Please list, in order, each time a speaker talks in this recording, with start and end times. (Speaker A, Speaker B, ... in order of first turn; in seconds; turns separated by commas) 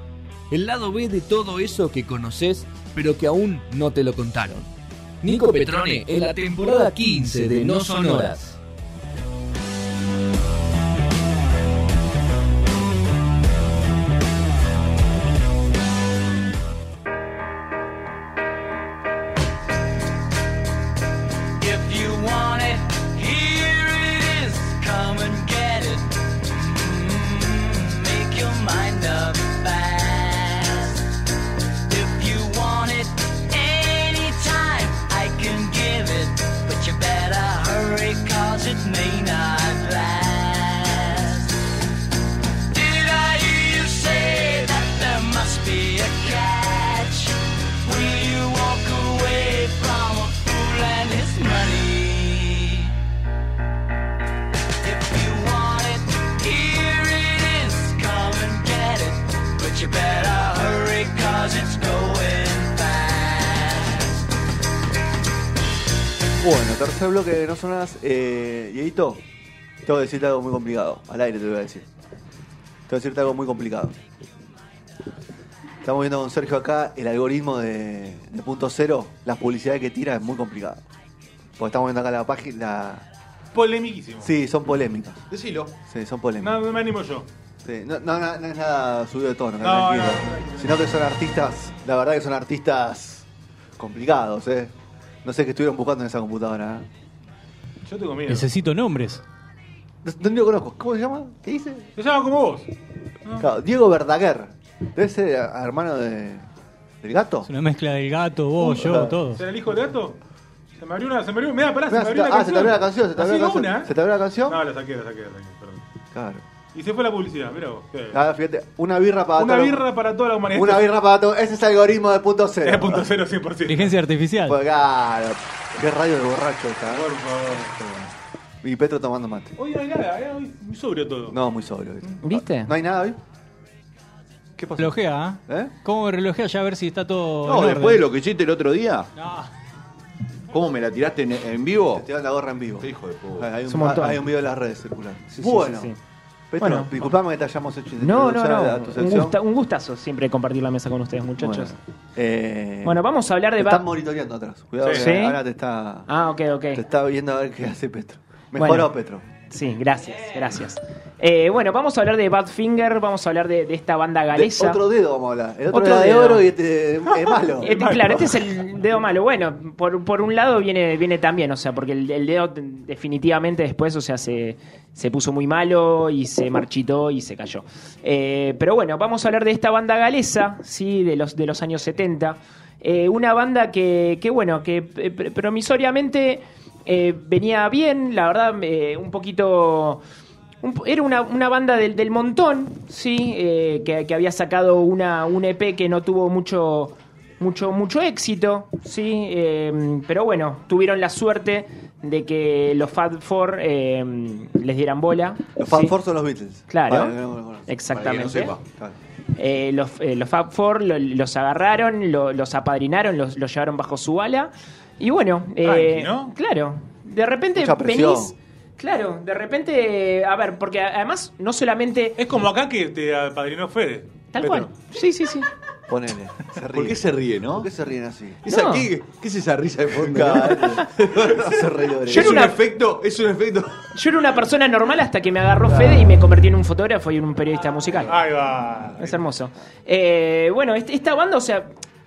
Speaker A: 0.5-4.7, Speaker A: 5.2-8.6, Speaker B: 21.6-31.0, Speaker B: 31.9-41.5, Speaker B: 42.7-52.9, Speaker B: 54.8-64.1, Speaker C: 66.4-69.2, Speaker C: 69.8-71.9, Speaker C: 72.9-74.0, Speaker C: 75.8-80.8, Speaker C: 81.6-83.1, Speaker D: 83.5-84.3, Speaker C: 84.2-85.2, Speaker E: 85.3-85.7, Speaker C: 85.9-86.6, Speaker D: 86.4-87.3, Speaker C: 87.6-93.3, Speaker D: 89.6-90.7, Speaker C: 93.8-94.7, Speaker C: 95.2-96.9, Speaker D: 97.8-98.5, Speaker F: 98.3-99.2, Speaker C: 100.0-101.9, Speaker D: 102.0-102.7, Speaker D: 103.2-103.5, Speaker C: 103.4-106.5, Speaker C: 107.0-107.5, Speaker F: 107.4-109.4, Speaker C: 108.6-109.2, Speaker D: 109.3-110.2, Speaker D: 110.8-113.9, Speaker C: 111.9-114.6, Speaker D: 114.5-115.8, Speaker C: 116.1-116.4, Speaker D: 116.7-118.2, Speaker C: 118.1-119.9, Speaker D: 119.4-120.9, Speaker C: 120.5-123.1, Speaker D: 122.6-123.9, Speaker F: 123.7-124.6, Speaker C: 124.4-127.1, Speaker D: 126.9-127.8, Speaker C: 127.7-128.1, Speaker C: 128.6-129.5, Speaker D: 129.6-131.4, Speaker C: 131.3-133.2, Speaker G: 132.2-132.7, Speaker C: 134.6-135.7, Speaker F: 134.8-138.1, Speaker E: 137.4-139.1, Speaker F: 139.2-139.5, Speaker E: 140.5-142.1, Speaker C: 141.9-145.9, Speaker E: 142.8-143.5, Speaker G: 143.7-144.2, Speaker G: 145.3-146.0, Speaker C: 146.5-149.4, Speaker G: 146.6-147.0, Speaker G: 148.0-151.8, Speaker C: 151.4-153.0, Speaker G: 152.8-153.8, Speaker C: 153.6-156.1, Speaker D: 154.8-155.1, Speaker G: 154.9-155.4, Speaker G: 156.1-156.8, Speaker C: 156.7-159.3, Speaker G: 158.6-158.9, Speaker G: 159.5-164.8, Speaker C: 164.3-167.8, Speaker G: 165.7-166.5, Speaker D: 167.2-168.3, Speaker G: 167.6-190.0, Speaker G: 190.6-205.9, Speaker C: 205.6-209.0, Speaker G: 206.7-208.6, Speaker E: 207.9-208.6, Speaker G: 209.3-222.2, Speaker D: 215.6-216.3, Speaker C: 217.6-218.3, Speaker D: 222.2-224.7, Speaker G: 224.3-225.5, Speaker C: 225.9-228.4, Speaker E: 226.7-227.7, Speaker E: 228.4-233.9, Speaker G: 228.5-228.9, Speaker C: 230.0-232.5, Speaker G: 230.6-230.8, Speaker G: 232.1-232.6, Speaker G: 233.9-238.2, Speaker D: 238.0-239.2, Speaker G: 239.0-241.7